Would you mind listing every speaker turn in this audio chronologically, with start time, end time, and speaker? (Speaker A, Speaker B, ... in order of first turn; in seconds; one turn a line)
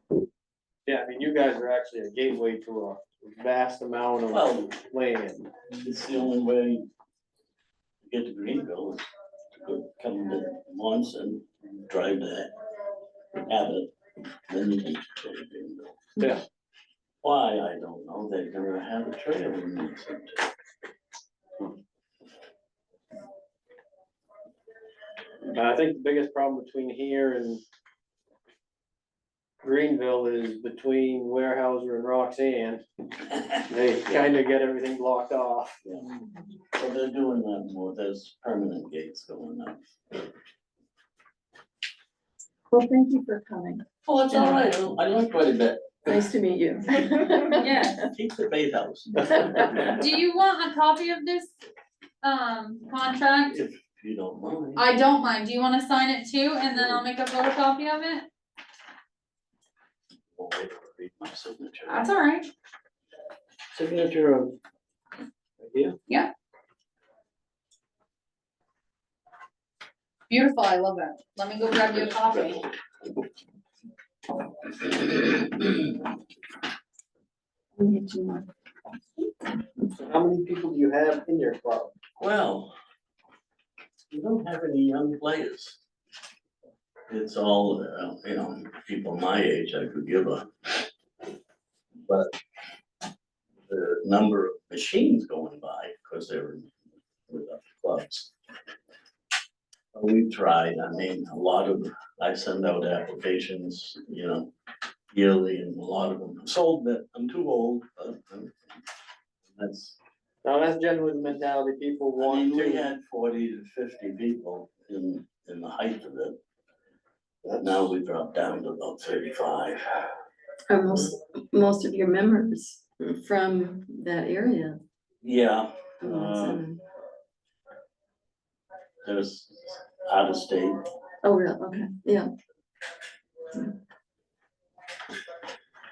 Speaker A: 0.8-5.5
Speaker B: 4.3-4.7
Speaker B: 5.8-6.8
Speaker B: 8.0-9.1
Speaker B: 9.6-12.5
Speaker B: 13.3-13.9
Speaker B: 14.5-16.0
Speaker B: 17.2-20.5
Speaker A: 25.4-27.6
Speaker A: 29.6-32.8
Speaker A: 33.7-35.8
Speaker B: 36.7-39.8
Speaker C: 42.7-43.8
Speaker B: 44.0-46.3
Speaker C: 46.1-48.1
Speaker D: 47.6-48.1
Speaker B: 48.1-50.0
Speaker D: 49.9-51.5
Speaker D: 52.2-53.6
Speaker B: 53.5-54.9
Speaker D: 54.8-58.3
Speaker B: 56.7-57.0
Speaker B: 60.3-62.1
Speaker D: 61.9-62.5
Speaker B: 63.7-64.5
Speaker B: 65.6-66.0
Speaker D: 70.3-72.6
Speaker C: 77.8-78.5
Speaker A: 79.9-81.9
Speaker B: 82.2-82.7
Speaker B: 84.1-85.8
Speaker B: 87.1-90.9
Speaker B: 92.1-92.3
Speaker B: 93.7-96.7
Speaker B: 97.3-98.3
Speaker B: 99.9-104.5
Speaker B: 105.1-108.6
Speaker B: 109.5-110.0
Speaker A: 110.4-112.9
Speaker B: 112.2-116.4
Speaker A: 117.4-117.8
Speaker B: 117.6-120.1
Speaker C: 120.7-124.8
Speaker B: 125.2-126.3
Speaker C: 126.0-126.8
Speaker A: 126.1-126.5
Speaker B: 129.0-130.8
Speaker C: 131.2-132.3